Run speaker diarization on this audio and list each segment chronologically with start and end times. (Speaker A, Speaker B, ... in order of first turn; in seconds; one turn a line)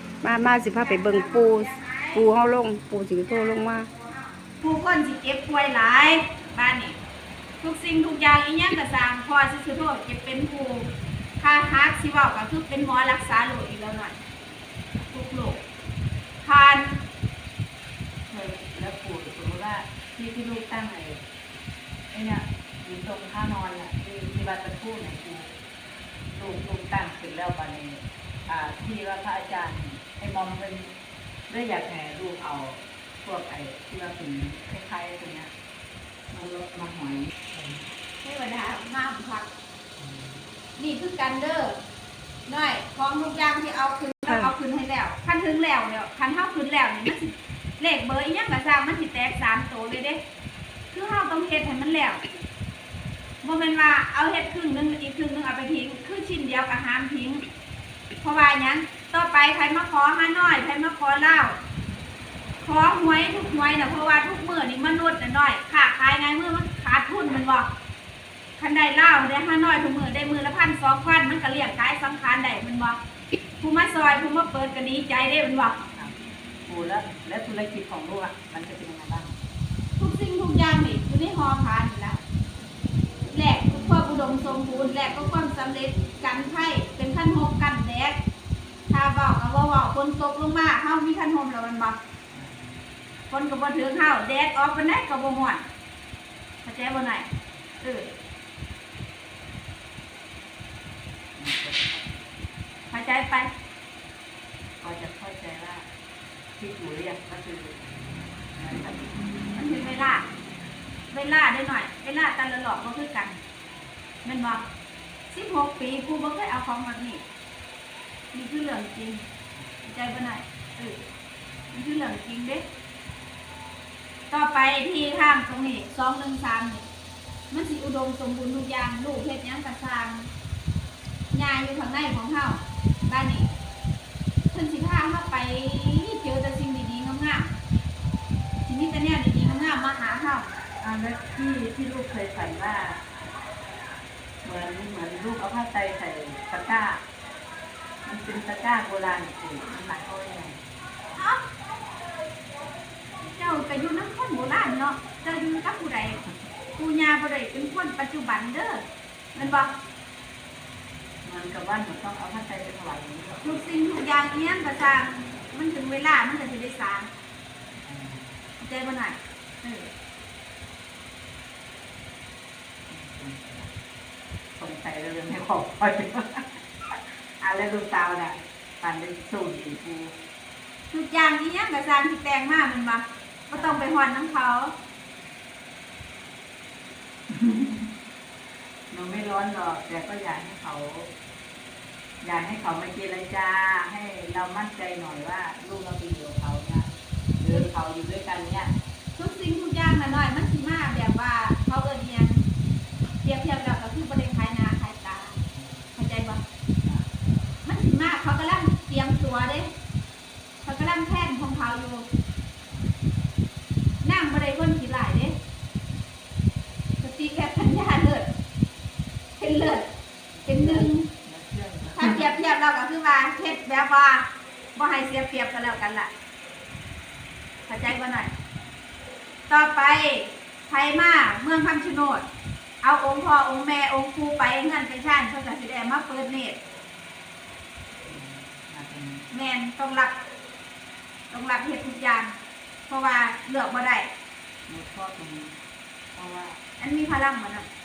Speaker A: 0.2-3.9
Speaker B: 0.7-2.3
Speaker B: 3.2-7.0
Speaker B: 7.6-14.2
Speaker B: 15.1-15.6
Speaker B: 16.4-17.0
Speaker C: 18.3-21.2
Speaker C: 22.1-25.5
Speaker C: 26.3-30.9
Speaker C: 31.5-35.5
Speaker C: 36.3-37.8
Speaker B: 38.2-39.5
Speaker C: 40.0-40.4
Speaker B: 40.8-41.8
Speaker B: 42.5-50.2
Speaker B: 50.9-52.2
Speaker B: 53.4-57.4
Speaker B: 58.2-61.6
Speaker B: 62.6-67.7
Speaker B: 68.6-73.0
Speaker B: 73.6-75.8
Speaker C: 76.7-79.3
Speaker B: 80.0-82.2
Speaker B: 83.2-88.2
Speaker B: 88.9-92.0
Speaker C: 92.3-92.7
Speaker B: 93.3-95.6
Speaker B: 96.6-97.3
Speaker B: 97.8-98.1
Speaker C: 101.4-102.3
Speaker B: 102.9-103.5
Speaker C: 104.8-105.9
Speaker C: 106.6-107.8
Speaker C: 108.5-109.2
Speaker B: 109.5-110.2
Speaker B: 111.1-113.4
Speaker B: 114.2-114.6
Speaker B: 115.3-117.2
Speaker B: 118.3-119.3
Speaker B: 119.8-121.0
Speaker B: 121.7-122.6
Speaker B: 124.3-126.8
Speaker B: 127.5-130.3
Speaker B: 131.3-133.5
Speaker B: 134.5-137.5
Speaker B: 138.7-140.5
Speaker C: 140.8-143.0
Speaker C: 144.4-147.0
Speaker C: 148.0-150.6
Speaker B: 151.2-151.4
Speaker B: 153.2-156.2
Speaker B: 156.8-159.7
Speaker C: 161.2-163.6
Speaker B: 163.4-167.1
Speaker C: 167.8-168.4
Speaker B: 168.6-169.9
Speaker C: 172.9-173.7
Speaker C: 174.5-180.1
Speaker B: 180.9-184.7
Speaker C: 183.5-183.8
Speaker C: 187.3-187.9
Speaker C: 188.9-191.1
Speaker C: 192.2-196.9
Speaker C: 197.4-198.7
Speaker B: 199.2-202.4
Speaker B: 203.2-205.4
Speaker C: 205.5-205.9
Speaker B: 205.9-206.4
Speaker B: 207.6-209.7
Speaker B: 210.6-212.1
Speaker C: 212.7-213.0
Speaker B: 214.0-215.4
Speaker B: 217.0-218.3
Speaker B: 219.4-219.9
Speaker C: 220.3-222.3
Speaker B: 220.4-221.1
Speaker B: 221.9-226.1
Speaker B: 227.7-228.3
Speaker B: 229.5-232.2
Speaker B: 232.8-236.6
Speaker C: 238.0-239.3
Speaker B: 239.3-240.1
Speaker B: 241.3-242.3
Speaker B: 242.9-244.1
Speaker C: 244.7-245.5
Speaker C: 246.1-246.6
Speaker B: 246.8-247.7